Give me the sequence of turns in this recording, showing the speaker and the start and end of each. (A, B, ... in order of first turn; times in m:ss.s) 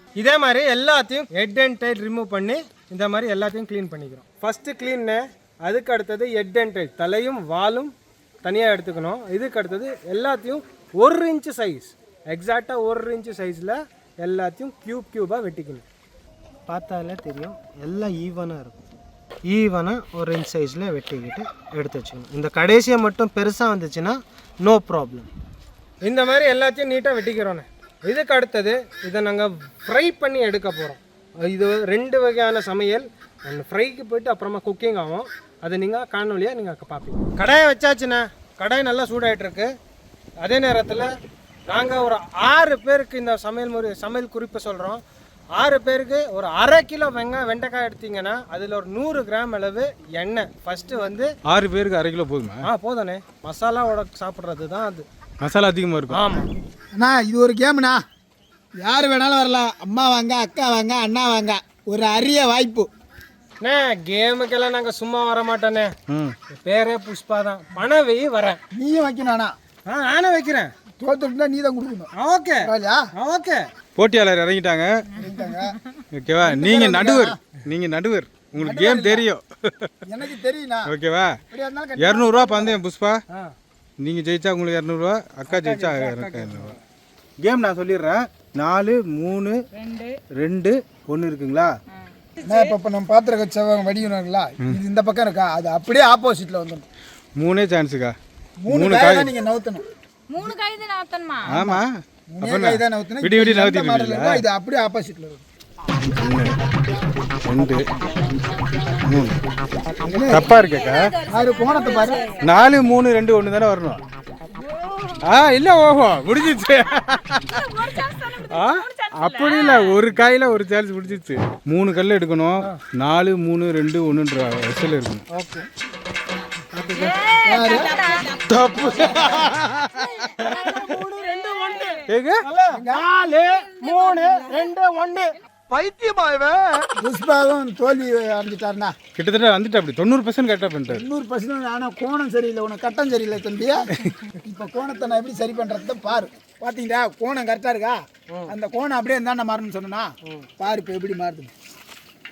0:00.2-0:07.9 A
0:08.4-0:15.8 A
0:16.7-0:18.8 A
0:19.5-0:25.3 A
0:26.0-0:39.7 A
0:40.4-0:41.1 A
0:41.7-0:45.0 A
0:45.5-0:51.3 A
0:51.5-0:52.6 B
0:52.6-0:55.0 A
0:55.4-0:56.2 B
0:56.1-0:56.5 A
0:56.9-0:58.0 C
0:58.8-1:02.9 C
1:03.6-1:05.9 A
1:06.1-1:06.3 B
1:06.5-1:08.6 A
1:08.7-1:09.5 C
1:09.8-1:10.7 A
1:11.0-1:12.1 C
1:12.2-1:13.6 A
1:12.6-1:13.0 C
1:14.0-1:14.9 B
1:15.2-1:15.7 C
1:15.3-1:15.9 D
1:16.1-1:19.9 B
1:16.4-1:17.4 C
1:18.6-1:19.2 C
1:20.1-1:20.9 C
1:20.9-1:21.4 B
1:21.5-1:22.8 C
1:22.0-1:23.2 B
1:24.0-1:26.7 B
1:25.5-1:26.8 A
1:27.4-1:29.6 B
1:29.7-1:30.1 D
1:30.4-1:31.7 B
1:32.4-1:36.8 C
1:37.4-1:38.1 B
1:38.6-1:39.8 C
1:38.7-1:39.3 B
1:40.3-1:41.5 D
1:41.5-1:44.4 B
1:41.5-1:45.4 C
1:46.0-1:46.6 B
1:47.4-1:47.8 B
1:49.1-1:49.4 B
1:50.0-1:50.5 C
1:50.3-1:51.1 B
1:50.5-1:52.6 D
1:51.3-1:52.2 C
1:52.4-1:54.0 B
1:54.6-1:55.2 D
1:55.2-1:57.4 B
1:57.5-2:00.0 D
1:58.5-2:05.2 B
2:05.3-2:05.7 A
2:06.7-2:07.1 A
2:07.0-2:09.3 D
2:07.4-2:07.9 C
2:08.5-2:09.9 B
2:10.2-2:12.0 D
2:10.4-2:16.6 A
2:12.1-2:12.4 B
2:12.7-2:13.0 C
2:13.8-2:14.5 D
2:17.0-2:18.9 C
2:19.1-2:21.0 B
2:20.9-2:23.9 C
2:24.4-2:31.5 C